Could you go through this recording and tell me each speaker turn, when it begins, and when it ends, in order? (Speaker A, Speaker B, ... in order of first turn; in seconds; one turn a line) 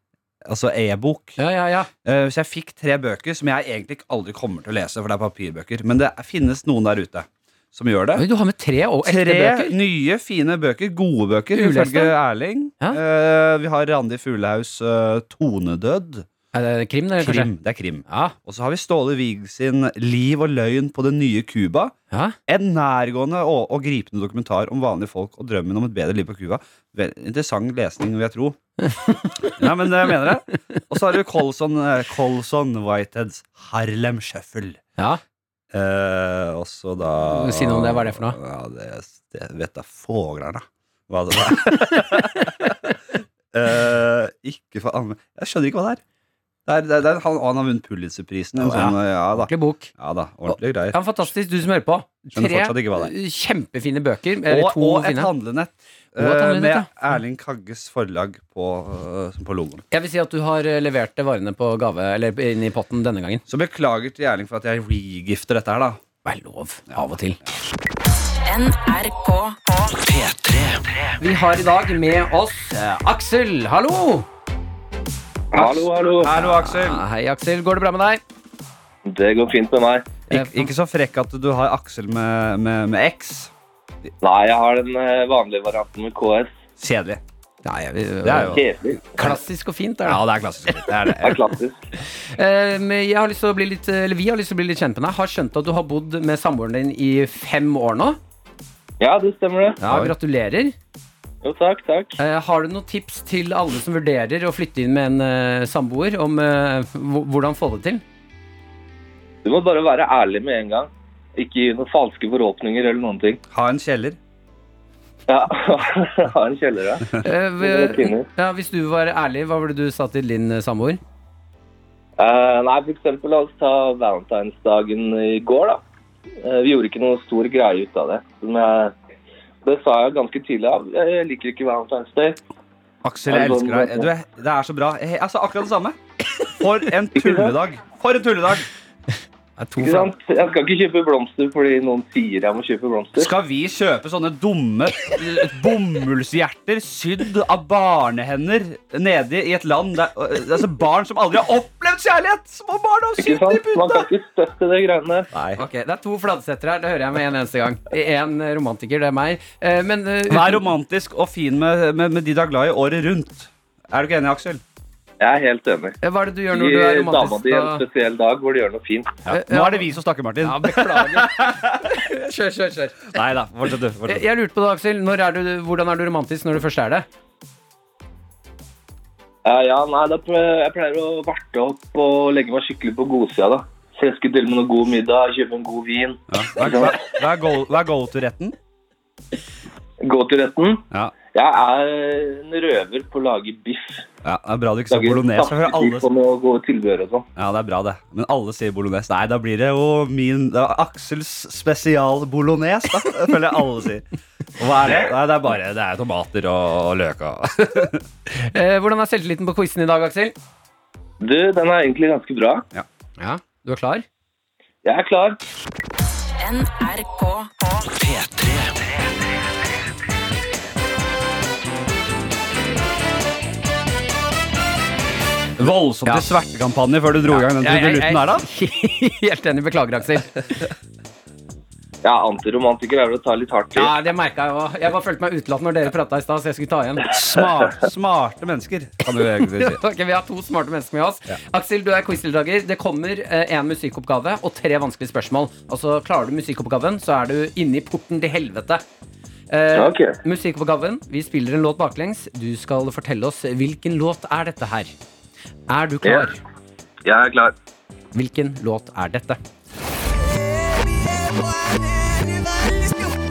Speaker A: 0.5-1.4
Speaker B: 1.4-1.9
Speaker A: 2.0-8.2
Speaker B: 8.2-9.8
Speaker A: 9.0-16.3
Speaker B: 11.5-12.1
Speaker B: 16.5-17.5
Speaker A: 17.2-21.9
Speaker B: 18.1-18.3
Speaker B: 22.1-22.4
Speaker A: 22.5-28.6
Speaker B: 28.8-30.1
Speaker A: 29.5-34.8
Speaker A: 35.7-42.9
Speaker B: 37.3-38.4
Speaker A: 43.5-46.0
Speaker A: 46.6-51.3
Speaker B: 48.6-49.9
Speaker B: 50.5-55.3
Speaker A: 52.3-53.1
Speaker A: 54.5-59.8
Speaker B: 56.2-56.9
Speaker B: 59.9-63.4
Speaker A: 63.5-66.0
Speaker B: 66.2-67.4
Speaker C: 68.5-69.6
Speaker D: 69.9-71.1
Speaker B: 71.2-74.3
Speaker E: 75.5-76.3
Speaker B: 75.5-78.2
Speaker A: 76.2-77.0
Speaker E: 79.0-80.2
Speaker A: 80.3-83.5
Speaker B: 80.3-80.7
Speaker E: 84.2-86.5
Speaker A: 86.8-87.2
Speaker B: 87.6-88.6
Speaker A: 88.2-88.6
Speaker E: 88.5-89.0
Speaker B: 89.1-90.7
Speaker A: 90.0-91.4
Speaker E: 91.2-91.8
Speaker B: 92.2-98.2
Speaker E: 99.0-99.8
Speaker B: 99.8-100.7
Speaker A: 99.8-100.1
Speaker E: 101.4-102.1
Speaker B: 102.2-108.0
Speaker E: 109.4-113.4
Speaker A: 113.5-114.2
Speaker E: 115.3-118.3
Speaker B: 117.2-121.0
Speaker E: 122.2-125.8
Speaker E: 126.4-128.9
Speaker E: 129.6-132.4
Speaker A: 133.0-135.9
Speaker E: 133.3-134.1
Speaker A: 136.5-138.7
Speaker E: 137.1-137.5
Speaker B: 139.6-140.1
Speaker E: 139.8-143.3
Speaker A: 143.2-154.1
Speaker E: 153.2-155.3
Speaker A: 155.3-155.6
Speaker B: 155.6-160.7
Speaker A: 160.3-164.6
Speaker E: 165.2-165.9
Speaker B: 166.0-167.8
Speaker E: 166.5-169.2
Speaker A: 169.2-171.9
Speaker B: 169.3-169.9
Speaker B: 170.4-173.1
Speaker A: 173.1-174.2
Speaker B: 174.1-177.1
Speaker E: 179.4-187.0
Speaker A: 186.3-188.5
Speaker E: 190.0-194.0
Speaker A: 194.2-196.1
Speaker E: 194.9-197.2
Speaker A: 197.3-204.0
Speaker A: 204.6-208.0
Speaker B: 208.3-210.3
Speaker E: 211.2-212.7
Speaker B: 213.2-214.1
Speaker E: 214.8-215.4
Speaker C: 216.4-217.5
Speaker D: 217.9-219.0
Speaker A: 225.6-228.4
Speaker B: 227.3-230.7
Speaker E: 232.0-233.9
Speaker B: 233.7-237.1
Speaker A: 237.0-239.8
Speaker B: 239.5-248.8
Speaker B: 249.5-254.9
Speaker E: 249.7-250.2
Speaker B: 255.7-256.4
Speaker E: 256.0-256.3
Speaker E: 257.0-257.5
Speaker B: 258.1-259.4